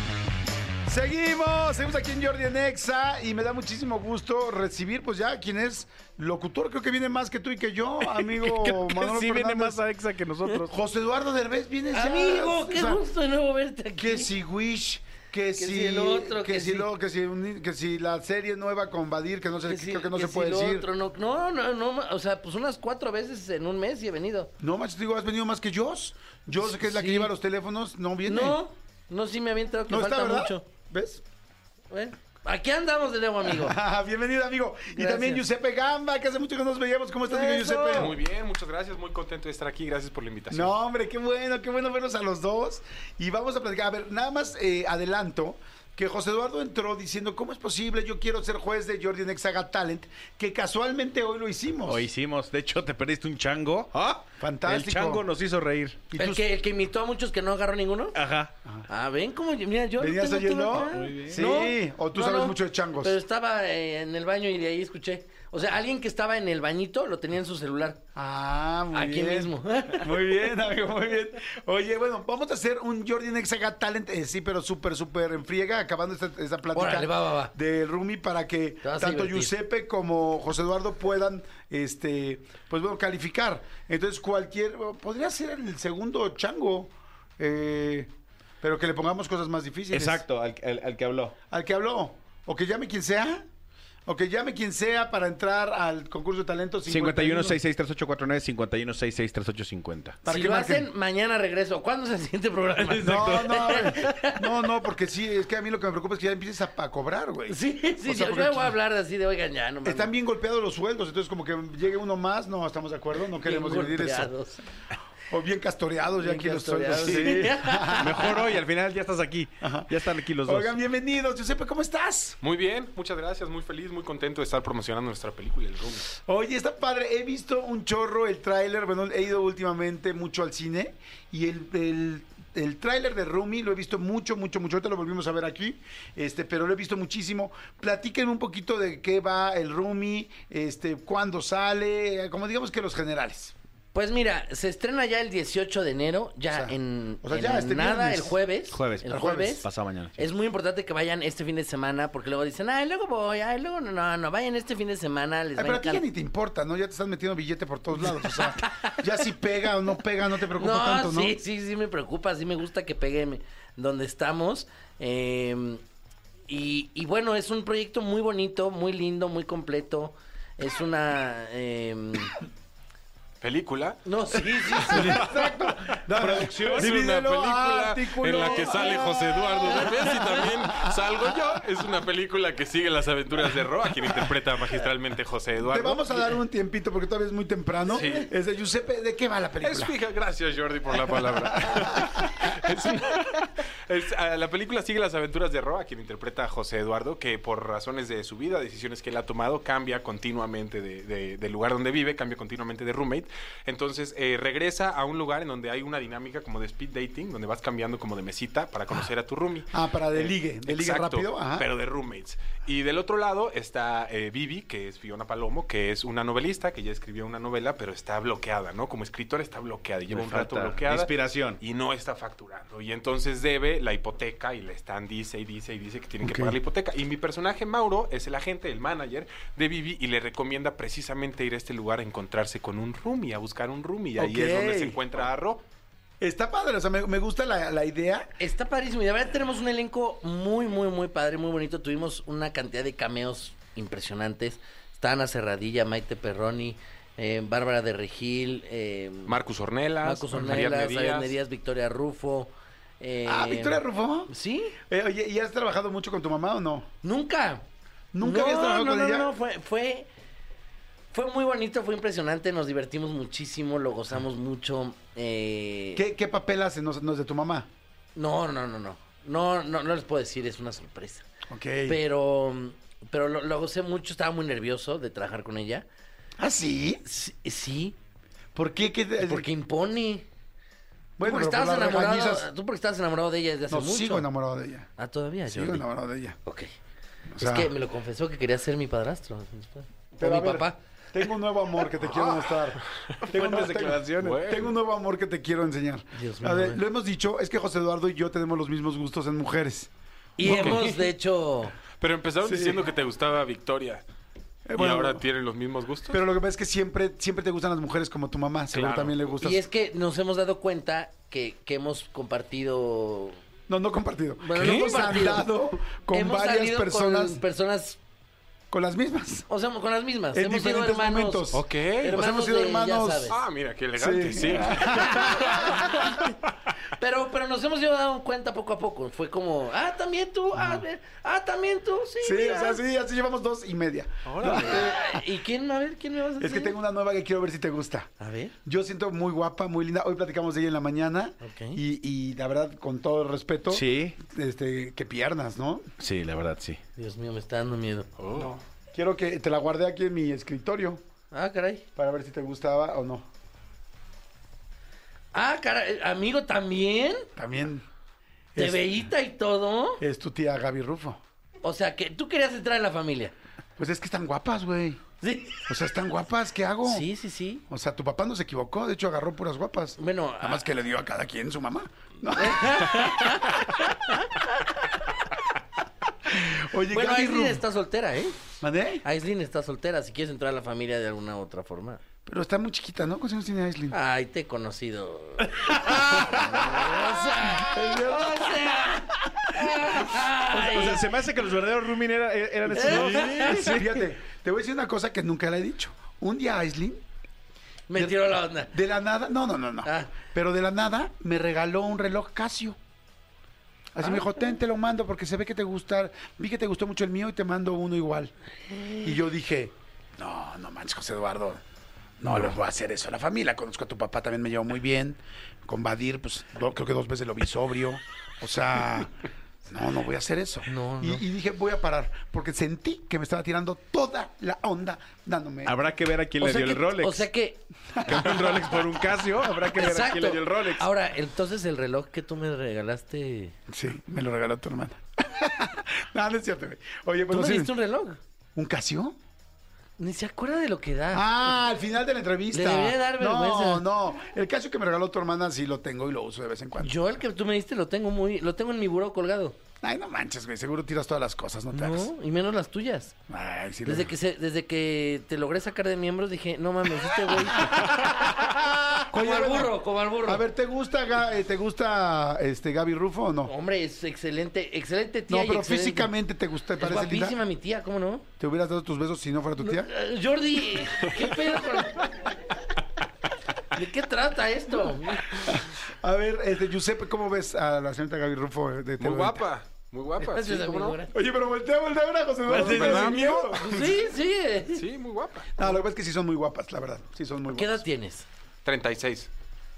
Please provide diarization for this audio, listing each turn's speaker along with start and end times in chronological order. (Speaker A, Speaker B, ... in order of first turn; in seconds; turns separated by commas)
Speaker A: 0.8-9.8, Speaker B: 8.0-10.7, Speaker A: 10.6-13.0, Speaker C: 11.9-14.3, Speaker A: 14.0-20.9, Speaker C: 15.6-16.9, Speaker C: 19.7-24.5, Speaker A: 24.6-28.6, Speaker C: 26.6-27.3, Speaker C: 28.2-30.6, Speaker A: 29.9-31.2, Speaker C: 31.9-33.8, Speaker A: 33.4-38.1, Speaker C: 34.9-35.4, Speaker C: 37.3-38.1, Speaker D: 37.9-40.7, Speaker A: 40.5-52.1, Speaker B: 51.9-56.0, Speaker A: 54.4-55.2, Speaker A: 56.1-56.4, Speaker C: 56.1-58.2, Speaker B: 58.1-58.5, Speaker C: 58.9-68.0, Speaker A: 60.0-63.2, Speaker B: 60.9-61.5, Speaker A: 68.1-88.1, Speaker C: 68.9-70.4, Speaker C: 76.7-77.5, Speaker C: 78.8-79.5, Speaker A: 88.6-90.2, Speaker B: 89.9-91.4, Speaker A: 91.5-93.5, Speaker A: 94.1-97.6, Speaker B: 96.8-100.2, Speaker A: 100.2-100.9, Speaker C: 100.3-104.6, Speaker A: 102.8-108.7, Speaker C: 107.5-110.1, Speaker A: 109.8-114.3, Speaker C: 113.4-114.6, Speaker A: 115.3-118.4, Speaker C: 116.2-118.4, Speaker B: 118.0-120.8, Speaker A: 119.6-122.4, Speaker D: 122.4-126.1, Speaker A: 126.2-143.5, Speaker C: 143.9-156.0, Speaker A: 146.5-148.4, Speaker B: 148.7-150.2, Speaker A: 149.1-149.6, Speaker A: 155.6-161.4, Speaker C: 158.2-159.1, Speaker C: 160.5-165.8, Speaker C: 166.5-172.4, Speaker D: 173.4-186.3, Speaker C: 174.1-175.2, Speaker A: 174.9-181.5, Speaker B: 176.2-176.9, Speaker C: 178.4-179.0, Speaker A: 185.6-189.9, Speaker D: 187.9-188.3, Speaker D: 189.6-235.6, Speaker A: 191.1-192.2, Speaker A: 209.7-211.7, Speaker B: 220.1-221.6, Speaker A: 226.2-226.5, Speaker A: 234.2-235.0, Speaker A: 236.2-238.3, Speaker C: 238.4-249.4, Speaker D: 249.2-251.3, Speaker C: 250.0-254.8, Speaker A: 253.2-256.9, Speaker C: 257.0-257.6, Speaker A: 258.1-259.3, Speaker C: 258.2-260.1, Speaker C: 261.1-266.0, Speaker A: 265.9-267.7, Speaker C: 268.1-271.2, Speaker A: 271.5-272.0, Speaker C: 271.9-275.9, Speaker A: 276.4-277.0, Speaker C: 277.0-278.0, Speaker A: 278.5-279.5, Speaker C: 279.2-280.2, Speaker A: 281.2-282.5, Speaker C: 281.2-284.3, Speaker A: 283.7-284.9, Speaker C: 285.0-285.9, Speaker A: 285.5-286.4, Speaker C: 286.4-286.7, Speaker A: 287.3-287.7, Speaker C: 287.4-290.8, Speaker A: 290.1-299.9, Speaker D: 292.0-294.7, Speaker B: 293.4-294.0, Speaker C: 296.1-296.8, Speaker C: 300.4-301.7, Speaker A: 300.4-300.8, Speaker D: 300.4-301.0, Speaker D: 302.0-304.0, Speaker A: 302.4-302.9, Speaker A: 304.6-305.2, Speaker D: 304.7-306.2, Speaker A: 306.1-309.6, Speaker D: 308.7-309.1, Speaker C: 309.4-313.4, Speaker A: 313.7-317.4, Speaker C: 314.4-315.5, Speaker D: 314.5-315.3, Speaker C: 316.1-318.0, Speaker A: 318.7-319.5, Speaker C: 319.5-321.5, Speaker A: 320.3-323.4, Speaker D: 321.5-322.2, Speaker C: 322.0-323.3, Speaker D: 323.3-326.1, Speaker A: 324.0-326.0, Speaker C: 324.9-326.3, Speaker C: 326.9-332.8, Speaker A: 332.2-335.2, Speaker D: 334.3-334.8, Speaker C: 334.4-336.8, Speaker A: 336.4-338.1, Speaker C: 338.2-338.5, Speaker A: 338.6-345.9, Speaker C: 341.4-341.8, Speaker B: 343.7-344.1, Speaker B: 346.0-346.8, Speaker C: 346.9-348.1, Speaker D: 348.2-348.5, Speaker A: 348.3-351.0, Speaker C: 351.3-351.8, Speaker A: 351.9-353.2, Speaker C: 355.3-357.3, Speaker A: 357.4-357.8, Speaker A: 358.5-359.0, Speaker C: 358.6-360.0, Speaker A: 360.0-361.2, Speaker C: 361.6-363.3, Speaker A: 363.8-365.0, Speaker C: 365.2-365.7, Speaker A: 365.7-367.1, Speaker C: 366.8-367.6, Speaker A: 367.7-373.6, Speaker C: 370.0-370.6, Speaker C: 372.3-374.3, Speaker A: 376.3-377.6, Speaker C: 376.9-378.4, Speaker A: 378.6-379.0, Speaker C: 379.0-382.0, Speaker A: 382.2-383.9, Speaker C: 383.9-391.0, Speaker A: 385.9-388.8, Speaker B: 390.4-393.9, Speaker A: 392.6-397.0, Speaker C: 392.7-393.8, Speaker C: 397.9-398.7, Speaker A: 397.9-402.8, Speaker C: 399.8-400.1, Speaker A: 403.9-408.3, Speaker C: 404.0-404.5, Speaker C: 408.7-409.2, Speaker A: 409.0-411.6, Speaker A: 412.2-425.7, Speaker C: 420.7-421.2, Speaker B: 425.6-427.2, Speaker C: 426.4-427.6, Speaker A: 427.9-428.8, Speaker B: 428.0-430.9, Speaker C: 429.7-433.5, Speaker A: 433.7-437.7, Speaker C: 437.3-438.2, Speaker A: 438.5-439.2, Speaker C: 440.0-441.6, Speaker A: 441.1-446.9, Speaker C: 442.5-443.8, Speaker C: 446.8-449.6, Speaker A: 449.8-452.1, Speaker C: 451.7-453.1, Speaker A: 453.3-454.1, Speaker C: 453.8-458.5, Speaker A: 457.6-463.5, Speaker C: 459.0-460.4, Speaker C: 463.4-466.1, Speaker A: 465.3-467.4, Speaker C: 466.8-468.2, Speaker A: 468.4-469.9, Speaker C: 469.6-472.3, Speaker C: 473.7-475.5, Speaker A: 475.4-479.4, Speaker D: 479.0-481.0, Speaker C: 480.2-481.1, Speaker A: 481.1-483.9, Speaker D: 482.5-484.0, Speaker C: 483.3-484.8, Speaker D: 484.7-485.5, Speaker A: 485.6-487.8, Speaker C: 487.5-488.2, Speaker D: 488.6-489.3